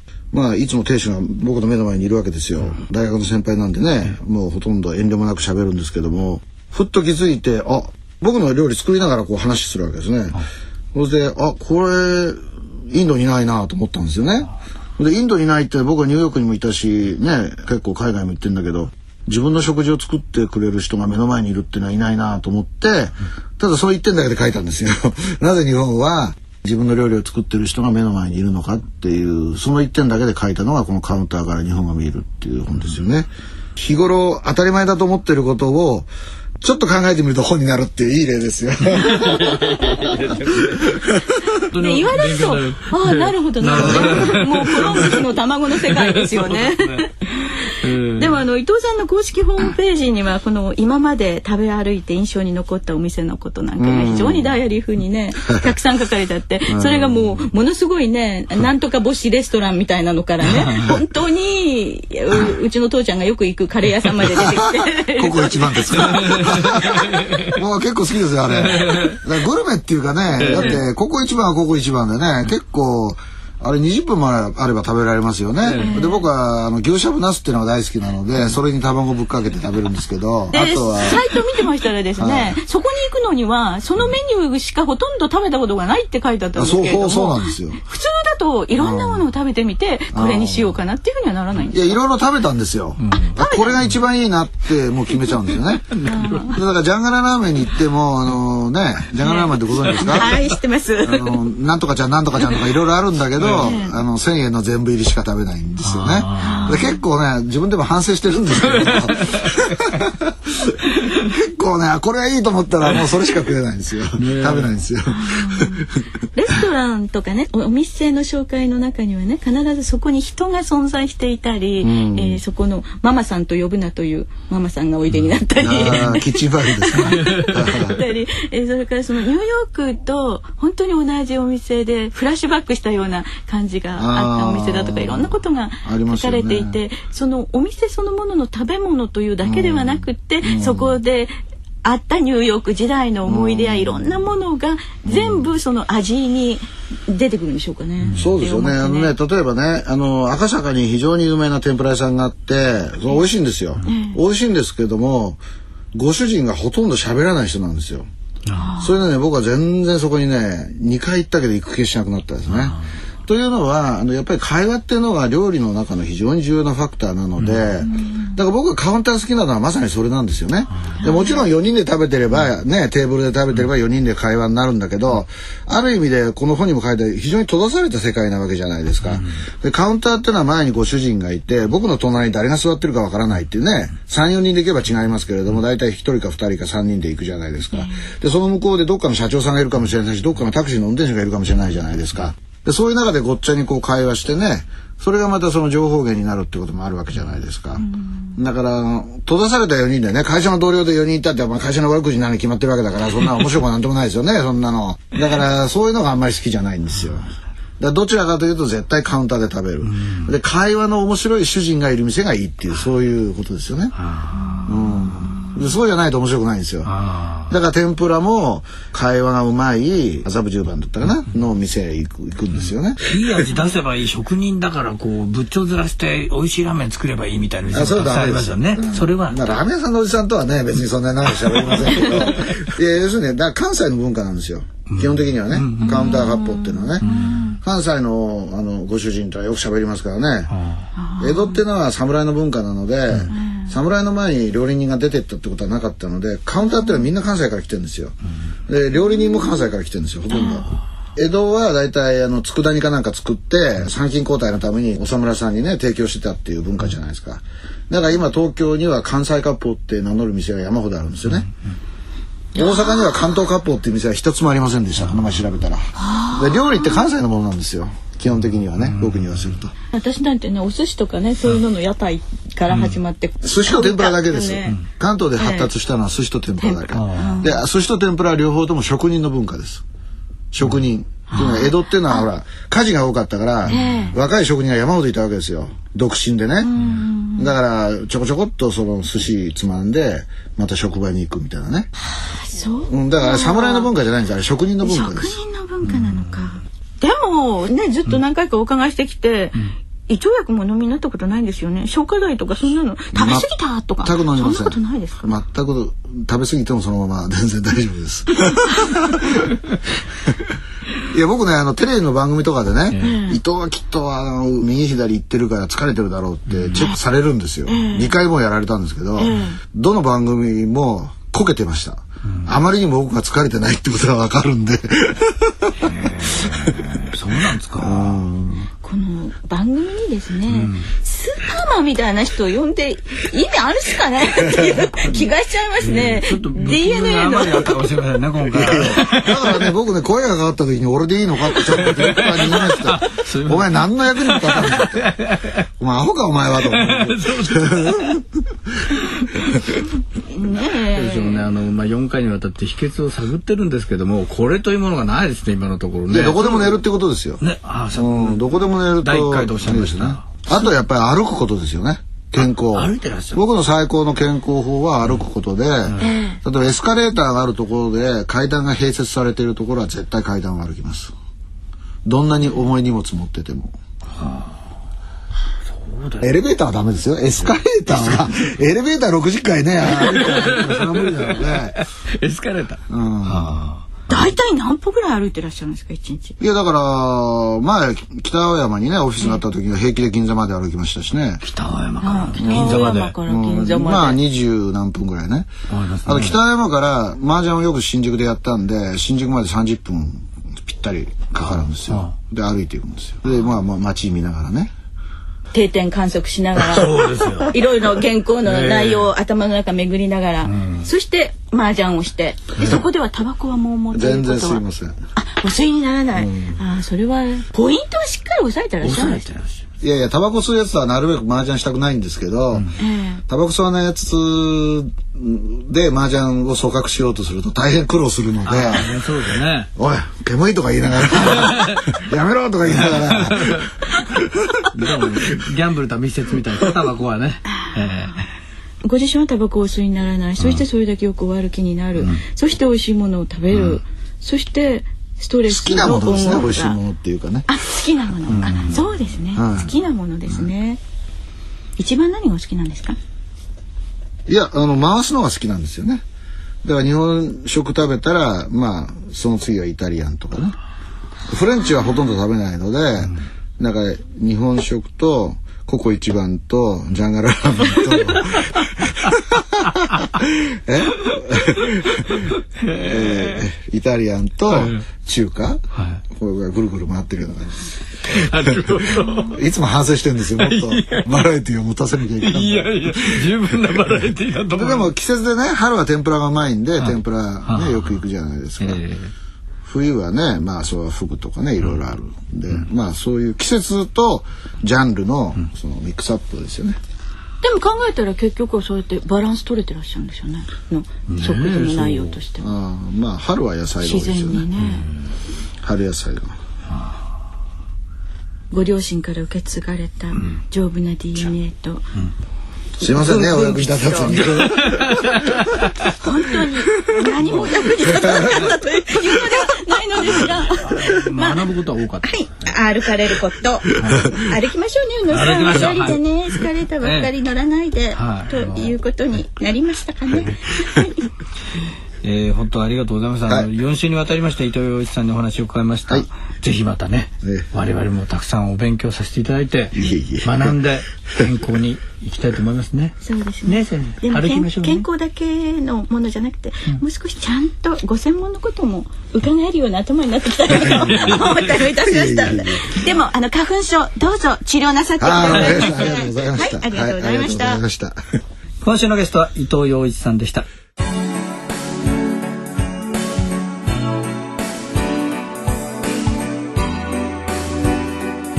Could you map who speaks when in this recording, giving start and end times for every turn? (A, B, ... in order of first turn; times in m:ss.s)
0:00.3-0:36.1 A
0:36.6-0:41.6 A
0:39.5-0:40.5 B
0:41.7-0:45.2 B
0:41.8-1:06.7 C
0:43.8-0:44.3 A
0:45.8-0:47.0 B
0:47.8-0:48.4 B
0:53.8-0:54.6 A
0:56.7-0:57.4 A
1:00.6-1:00.9 B
1:04.2-1:21.3 A
1:07.0-1:07.5 B
1:08.7-1:09.2 B
1:10.4-1:10.8 B
1:15.6-1:15.9 B
1:15.7-1:16.2 C
1:20.5-1:32.0 C
1:22.2-1:22.6 A
1:26.5-1:27.8 A
1:28.7-1:29.3 A
1:30.1-1:30.8 A
1:31.7-1:40.4 A
1:33.0-1:33.4 B
1:33.4-1:33.8 C
1:35.9-1:36.5 B
1:36.0-1:36.6 C
1:39.2-1:41.4 C
1:41.0-1:50.7 A
1:43.4-1:43.8 B
1:43.6-1:44.0 C
1:45.8-1:46.8 B
1:46.4-1:47.0 C
1:51.2-1:56.0 A
1:54.2-1:54.8 B
1:55.1-2:29.1 C
2:01.8-2:02.4 A
2:05.6-2:08.0 A
2:14.0-2:16.8 A
2:19.4-2:21.0 A
2:23.2-2:24.2 A
2:25.0-2:25.5 A
2:28.1-2:35.4 A
2:33.8-2:34.2 C
2:35.9-2:38.1 A
2:38.5-2:39.0 C
2:38.8-3:27.3 A
2:47.4-2:47.7 B
2:47.9-2:48.3 C
2:51.0-2:51.5 C
3:07.7-3:08.0 C
3:17.8-3:18.4 C
3:27.8-3:33.9 A
3:29.8-3:30.3 B
3:34.0-3:34.6 B
3:34.4-3:34.7 C
3:34.6-3:36.9 A
3:36.8-3:37.5 B
3:37.5-3:43.0 A
3:43.0-3:49.6 B
3:47.7-3:57.0 A
3:51.7-3:52.3 B
3:54.9-3:56.2 B
3:55.8-3:57.6 C
3:57.0-3:57.4 B
3:57.6-4:00.5 A
4:00.5-4:00.8 B
4:01.0-4:01.6 C
4:01.2-4:08.2 A
4:03.3-4:03.7 C
4:08.7-4:21.5 A
4:10.3-4:10.6 C
4:22.5-4:23.1 C
4:22.5-4:29.7 A
4:25.9-4:27.0 C
4:28.8-4:29.5 B
4:29.9-4:34.8 C
4:32.7-4:33.0 B
4:33.4-4:39.8 A
4:35.4-4:35.7 C
4:36.6-4:37.6 C
4:36.9-4:37.4 B
4:40.5-4:46.8 A
4:41.3-4:42.2 C
4:43.7-4:44.2 C
4:43.7-4:44.0 B
4:46.6-4:47.5 C
4:46.8-4:47.0 B
4:47.4-4:51.9 A
4:52.0-4:53.9 C
4:52.9-4:55.4 A
4:54.8-5:05.3 C
4:55.9-4:56.2 B
5:03.1-5:03.5 A
5:04.0-5:09.5 A
5:11.1-5:26.9 A
5:13.0-5:13.4 C
5:16.5-5:16.9 B
5:17.7-5:18.1 C
5:19.2-5:19.6 C
5:25.8-5:28.2 B
5:27.8-5:28.7 A
5:28.8-5:37.8 C
5:30.5-5:30.8 B
5:35.8-5:39.7 B
5:38.5-5:45.1 A
5:41.6-5:45.5 B
5:45.8-5:48.4 A
5:46.7-5:48.1 B
5:50.2-5:51.5 C
5:50.9-5:56.8 B
5:56.1-5:57.4 A
5:57.4-6:00.3 B
5:57.9-6:11.1 A
6:02.4-6:03.4 B
6:06.0-6:06.4 C
6:12.0-6:13.8 A
6:14.2-6:14.6 B
6:15.7-6:16.3 B
6:16.2-6:21.8 A
6:17.9-6:18.3 B
6:19.8-6:23.8 B
6:22.9-6:23.6 A
6:24.1-6:26.4 C
6:26.4-6:31.4 A
6:31.4-6:33.1 B
6:32.0-6:34.2 C
6:32.4-6:35.5 A
6:35.7-6:36.4 B
6:36.0-6:44.7 A
6:45.5-6:54.6 C
6:46.6-6:47.6 B
6:48.4-6:49.1 B
6:50.4-6:50.8 B
6:53.9-6:55.0 A
6:55.2-6:59.2 C
6:56.1-6:56.6 A
6:58.8-6:59.6 B
6:59.8-7:02.7 A
7:02.8-7:03.2 C
7:03.3-7:08.9 A
7:08.4-7:09.7 B
7:09.8-7:14.5 A
7:11.4-7:11.8 B
7:13.3-7:13.6 B
7:14.7-7:18.3 B
7:17.5-7:17.9 C
7:18.8-7:26.8 C
7:23.5-7:23.8 B
7:25.5-7:27.5 A
7:27.5-7:30.8 C
7:28.3-7:28.8 B
7:29.3-7:29.7 A
7:31.8-7:33.0 C
7:34.3-7:36.0 A
7:36.6-7:40.5 A
7:41.3-8:03.3 A
7:52.6-7:53.4 B
7:54.5-7:54.8 B
7:55.7-7:56.0 B
7:58.1-7:59.4 B
8:00.4-8:01.2 B
8:02.2-8:04.9 B
8:04.5-8:08.8 A
8:06.8-8:08.0 B
8:08.6-8:09.1 B
8:09.6-8:16.8 A
8:17.4-8:22.5 C
8:21.1-8:22.2 B
8:22.4-8:24.5 A
8:23.8-8:24.8 C
8:24.6-8:24.9 B
8:25.6-8:26.4 A
8:28.5-8:31.8 C
8:32.8-8:35.0 A
8:32.8-8:34.2 C
8:34.1-8:35.8 B
8:36.0-8:41.4 C
8:38.1-8:38.5 A
8:40.6-8:42.1 B
8:42.0-8:51.1 C
8:43.7-8:44.0 B
8:45.1-8:46.0 B
8:46.8-8:47.1 B
8:47.9-8:48.7 B
8:52.0-9:04.8 B
8:59.8-9:00.5 A
9:03.0-9:17.6 C
9:10.5-9:12.8 A
9:10.9-9:11.2 B
9:15.0-9:18.0 A
9:18.6-9:20.4 B